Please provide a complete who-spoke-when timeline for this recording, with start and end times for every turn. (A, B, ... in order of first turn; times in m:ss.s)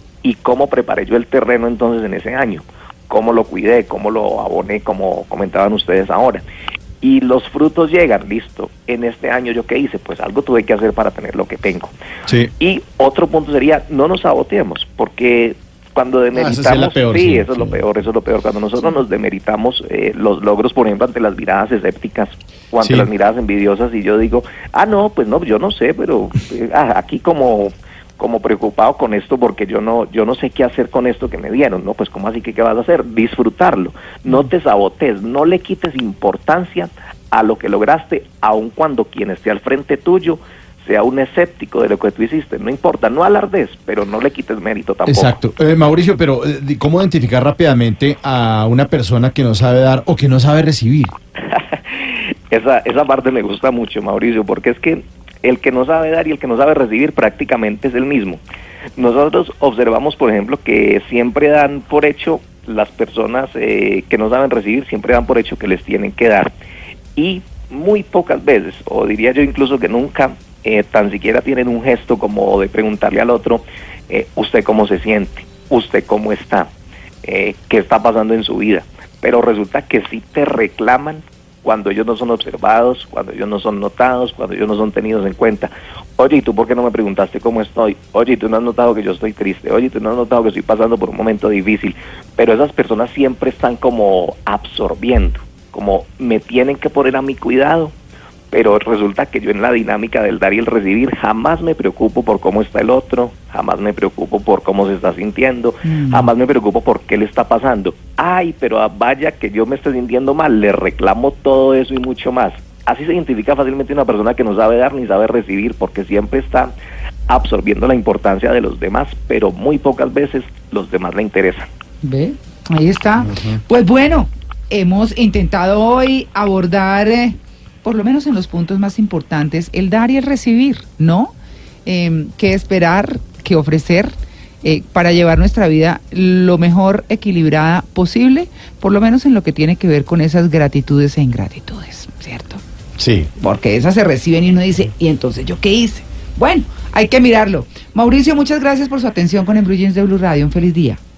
0:00.2-0:06.4 A
0:07.0-0:11.9 A
0:12.6-0:45.3 A
0:16.3-0:17.8 B
0:22.8-0:23.1 B
0:45.1-0:51.1 B
0:51.5-0:58.4 A
0:59.0-1:06.5 A
1:07.2-1:16.7 A
1:17.2-1:37.9 A
1:38.5-1:56.7 A
1:45.8-1:46.3 C
1:57.3-2:01.7 A
2:02.0-2:11.3 C
2:03.3-2:03.6 B
2:11.8-2:22.6 C
2:23.0-2:23.3 B
2:23.4-2:31.0 C